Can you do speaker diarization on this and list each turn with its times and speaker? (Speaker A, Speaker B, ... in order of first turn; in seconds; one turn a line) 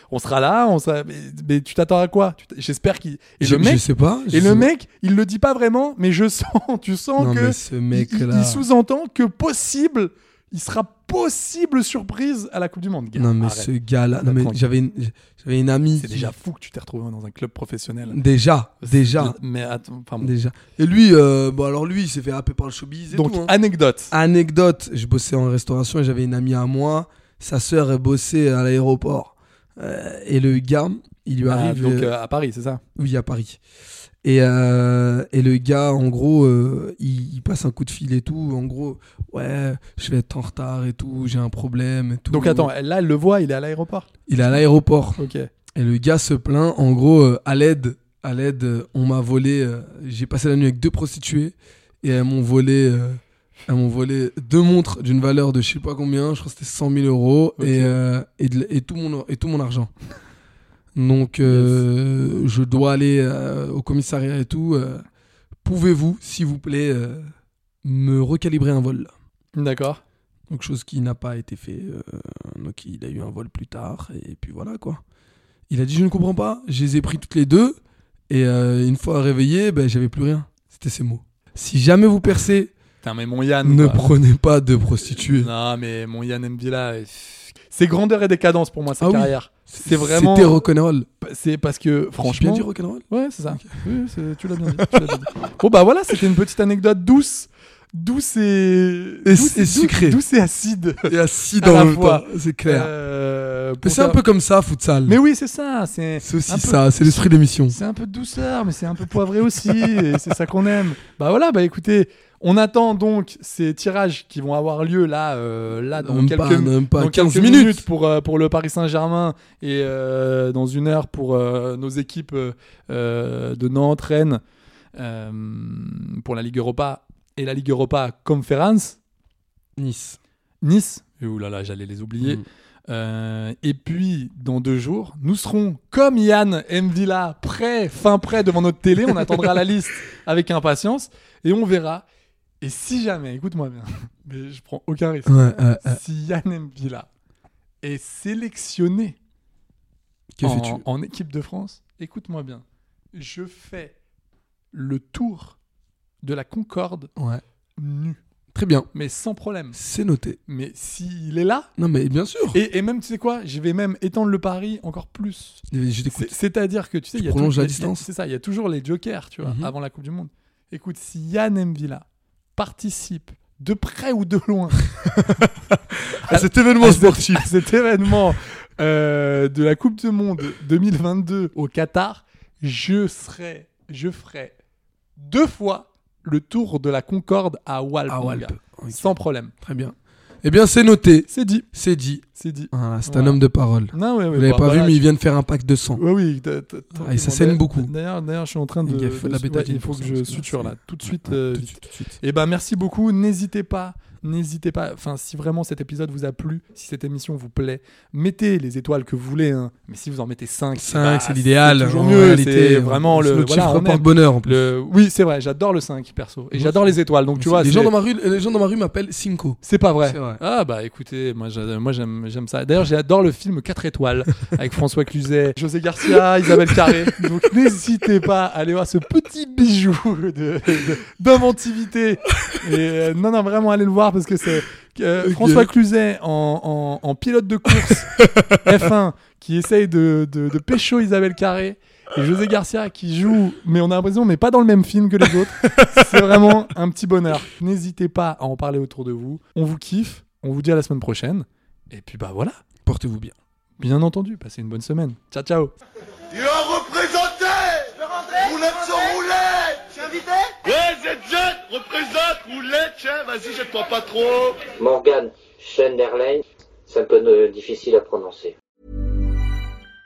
Speaker A: 0.1-14.6
Speaker B: 3.4-4.7
Speaker B: 7.2-8.7
Speaker B: 13.2-16.3
Speaker A: 16.0-18.1
Speaker B: 18.1-19.4
Speaker A: 18.8-20.3
Speaker B: 20.2-23.5
Speaker A: 23.1-24.1
Speaker B: 24.1-32.1
Speaker A: 31.5-32.8
Speaker B: 33.0-33.6
Speaker B: 34.2-42.7
Speaker A: 42.3-44.6
Speaker B: 44.3-45.2
Speaker A: 45.2-45.5
Speaker B: 45.7-59.9
Speaker A: 57.6-58.0
Speaker B: 60.9-65.0
Speaker A: 61.4-61.8
Speaker B: 65.6-67.3
Speaker B: 67.8-69.1
Speaker A: 69.5-70.0
Speaker B: 70.5-75.0
Speaker B: 75.7-77.8
Speaker B: 78.3-82.7
Speaker A: 83.0-84.1
Speaker B: 83.6-85.5
Speaker A: 85.1-90.6
Speaker B: 89.0-91.1
Speaker A: 91.2-104.2
Speaker B: 92.2-93.9
Speaker B: 94.7-95.2
Speaker B: 99.2-100.2
Speaker B: 101.0-102.9
Speaker B: 103.8-105.2
Speaker A: 105.1-124.4
Speaker B: 106.2-107.8
Speaker B: 116.0-117.8
Speaker A: 125.0-129.0
Speaker B: 129.8-130.2
Speaker A: 130.6-142.0
Speaker B: 132.2-132.4
Speaker B: 139.1-139.6
Speaker A: 142.6-147.1
Speaker B: 145.2-146.0
Speaker A: 147.8-149.2
Speaker B: 150.3-150.8
Speaker A: 150.4-152.6
Speaker A: 153.1-153.9
Speaker A: 154.7-155.6
Speaker A: 156.2-157.1
Speaker B: 157.2-157.4
Speaker A: 157.8-158.2
Speaker B: 158.5-158.9
Speaker A: 158.9-159.8
Speaker B: 159.7-160.4
Speaker A: 160.5-161.7
Speaker B: 161.8-162.6
Speaker A: 162.5-172.0
Speaker B: 165.7-166.3
Speaker B: 167.1-168.1
Speaker B: 169.4-169.7
Speaker A: 172.6-175.0
Speaker B: 175.0-177.5
Speaker A: 176.2-184.5
Speaker A: 185.2-189.5
Speaker B: 188.1-196.0
Speaker A: 191.3-191.7
Speaker A: 192.4-193.4
Speaker A: 193.9-195.0
Speaker A: 196.0-217.9
Speaker B: 196.9-197.9
Speaker B: 198.8-202.1
Speaker B: 210.7-214.6
Speaker B: 216.5-220.4
Speaker A: 219.6-238.1
Speaker B: 226.6-227.1
Speaker B: 235.2-235.7
Speaker B: 237.7-238.6
Speaker A: 238.6-252.6
Speaker B: 245.2-246.7
Speaker B: 252.8-253.3
Speaker A: 253.8-255.7
Speaker C: 256.3-264.8
Speaker D: 264.8-268.5